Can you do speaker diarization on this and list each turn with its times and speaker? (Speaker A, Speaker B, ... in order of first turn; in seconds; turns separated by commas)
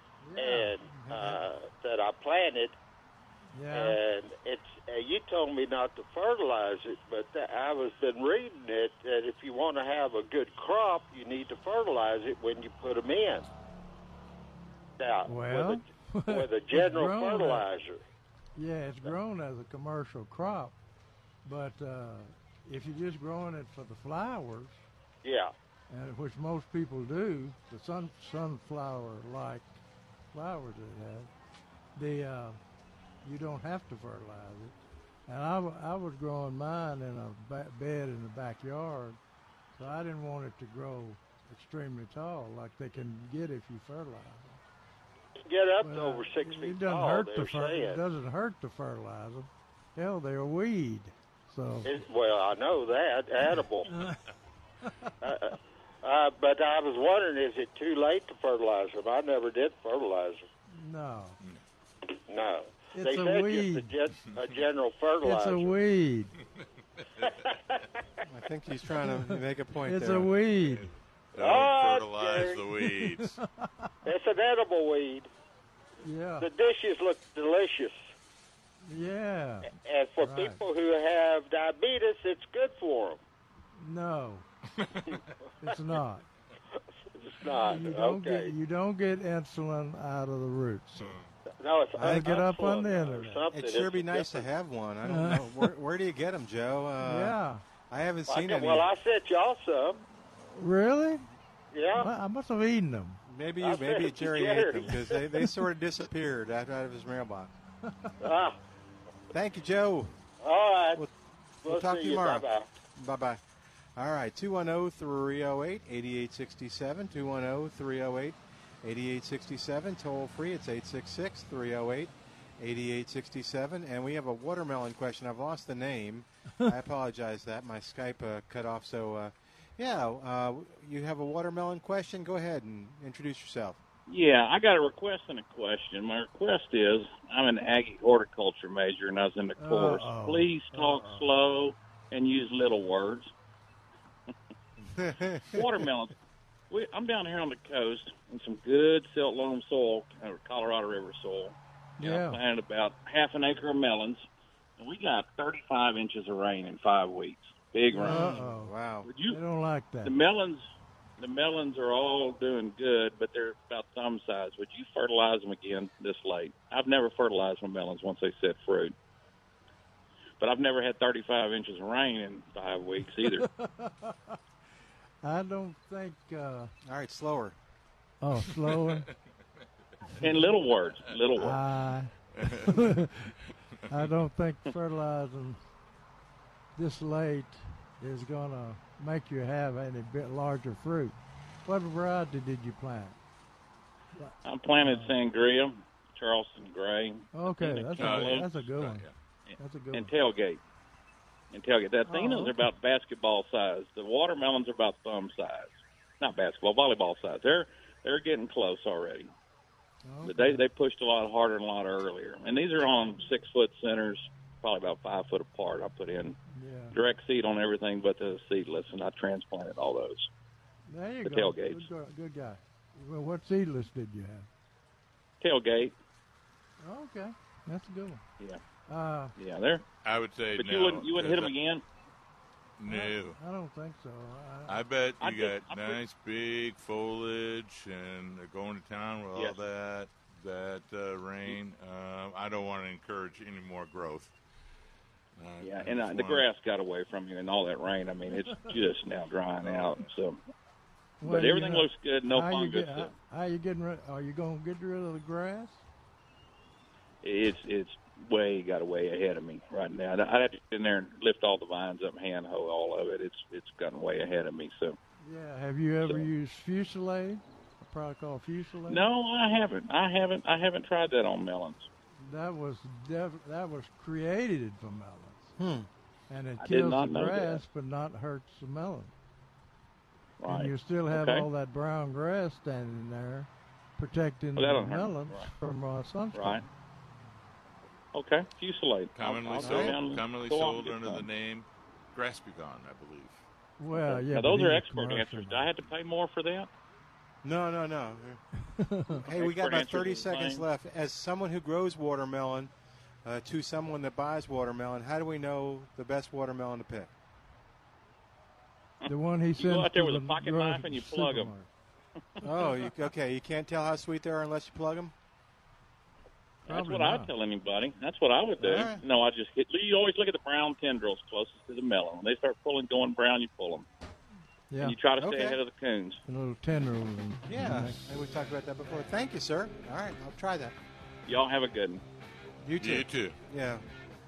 Speaker A: 0.2-1.4, Speaker B: 0.4-2.8, Speaker A: 3.5-4.0, Speaker B: 3.7-13.5, Speaker B: 15.0-18.0, Speaker A: 15.2-17.7, Speaker A: 18.6-20.7, Speaker A: 21.4-24.8, Speaker B: 25.2-25.5, Speaker A: 25.9-29.7, Speaker A: 30.3-31.3, Speaker A: 31.9-32.6, Speaker A: 33.2-34.7, Speaker A: 35.3-39.2, Speaker A: 39.8-44.6, Speaker B: 45.5-48.0, Speaker A: 45.8-52.0, Speaker B: 51.8-53.9, Speaker A: 53.9-54.2, Speaker A: 54.8-55.1, Speaker B: 55.2-60.5, Speaker A: 60.7-61.4, Speaker B: 62.2-65.8, Speaker A: 62.9-64.0, Speaker A: 65.2-66.3, Speaker B: 67.2-67.8, Speaker C: 68.2-70.3, Speaker A: 69.0-70.9, Speaker D: 70.6-73.4, Speaker B: 71.3-72.6, Speaker A: 73.0-73.9, Speaker B: 74.0-75.3, Speaker A: 76.0-76.5, Speaker B: 76.4-78.1, Speaker A: 78.8-80.6, Speaker B: 79.7-83.2, Speaker A: 83.8-84.5, Speaker D: 84.8-85.1, Speaker A: 85.6-86.2, Speaker B: 87.1-88.5, Speaker A: 87.5-91.2, Speaker D: 91.0-91.2, Speaker B: 91.6-94.5, Speaker C: 92.0-92.4, Speaker A: 92.0-93.4, Speaker C: 93.5-97.4, Speaker A: 95.0-95.7, Speaker A: 97.0-97.6, Speaker C: 97.9-98.9, Speaker B: 98.3-100.0, Speaker A: 100.5-101.2, Speaker B: 101.7-102.1, Speaker A: 101.9-103.2, Speaker C: 103.2-107.5, Speaker B: 103.6-105.2, Speaker A: 107.8-108.2, Speaker B: 108.2-108.6, Speaker C: 109.3-110.2, Speaker B: 110.4-111.0, Speaker B: 111.6-112.7, Speaker C: 111.6-113.4, Speaker C: 114.0-133.8, Speaker E: 134.1-143.3, Speaker A: 139.6-141.3, Speaker C: 144.8-145.6, Speaker E: 145.5-146.1, Speaker E: 146.7-154.2, Speaker A: 152.0-152.4, Speaker E: 154.8-158.3, Speaker A: 157.9-158.7, Speaker C: 158.0-159.1, Speaker E: 159.0-159.4, Speaker A: 159.2-160.1, Speaker E: 160.0-160.6, Speaker E: 161.2-168.9, Speaker E: 170.4-173.5, Speaker A: 173.2-174.4, Speaker A: 175.2-176.7, Speaker C: 176.8-177.6, Speaker A: 178.2-179.1, Speaker E: 180.2-181.6, Speaker A: 181.4-185.6, Speaker D: 182.4-182.8, Speaker A: 186.8-193.2, Speaker A: 194.2-195.1, Speaker E: 194.4-198.6, Speaker A: 197.3-200.1, Speaker D: 198.0-199.1, Speaker E: 199.5-200.6, Speaker E: 201.5-209.3, Speaker A: 202.1-202.6, Speaker A: 210.0-210.6, Speaker E: 210.2-216.3, Speaker A: 216.5-217.0, Speaker E: 216.9-220.3, Speaker A: 220.9-224.5, Speaker E: 221.2-221.9, Speaker E: 225.4-225.9, Speaker A: 226.8-228.2, Speaker A: 228.9-229.3, Speaker E: 229.3-229.8, Speaker D: 230.0-231.5, Speaker E: 230.6-231.8, Speaker D: 232.8-233.4, Speaker A: 232.9-234.8, Speaker D: 234.7-244.3, Speaker E: 235.2-236.0, Speaker D: 245.4-246.4, Speaker E: 245.6-250.4, Speaker D: 249.6-250.1, Speaker A: 251.2-255.8, Speaker E: 251.2-253.1, Speaker E: 257.2-265.0, Speaker A: 265.2-269.0, Speaker E: 266.0-266.3, Speaker E: 268.9-271.9, Speaker A: 272.2-275.5, Speaker C: 275.6-275.9, Speaker A: 276.3-279.1, Speaker E: 276.6-277.6, Speaker E: 280.4-281.5, Speaker A: 280.5-286.6, Speaker E: 284.6-285.5, Speaker E: 286.3-286.6, Speaker E: 288.1-291.2, Speaker D: 289.1-293.4, Speaker C: 289.6-289.9, Speaker A: 293.8-295.7, Speaker E: 293.9-296.7, Speaker C: 297.4-298.4, Speaker A: 298.7-299.2, Speaker C: 299.2-302.7, Speaker E: 299.2-300.6, Speaker C: 303.2-307.1, Speaker E: 309.0-311.5, Speaker A: 309.1-311.7, Speaker C: 312.4-315.1, Speaker A: 316.6-317.3, Speaker E: 316.7-323.9, Speaker C: 318.6-319.0, Speaker A: 324.7-325.0, Speaker E: 324.8-326.2, Speaker C: 325.2-325.6, Speaker A: 326.3-328.1, Speaker C: 327.5-330.8, Speaker E: 331.2-332.0, Speaker C: 332.6-333.8, Speaker D: 332.8-333.4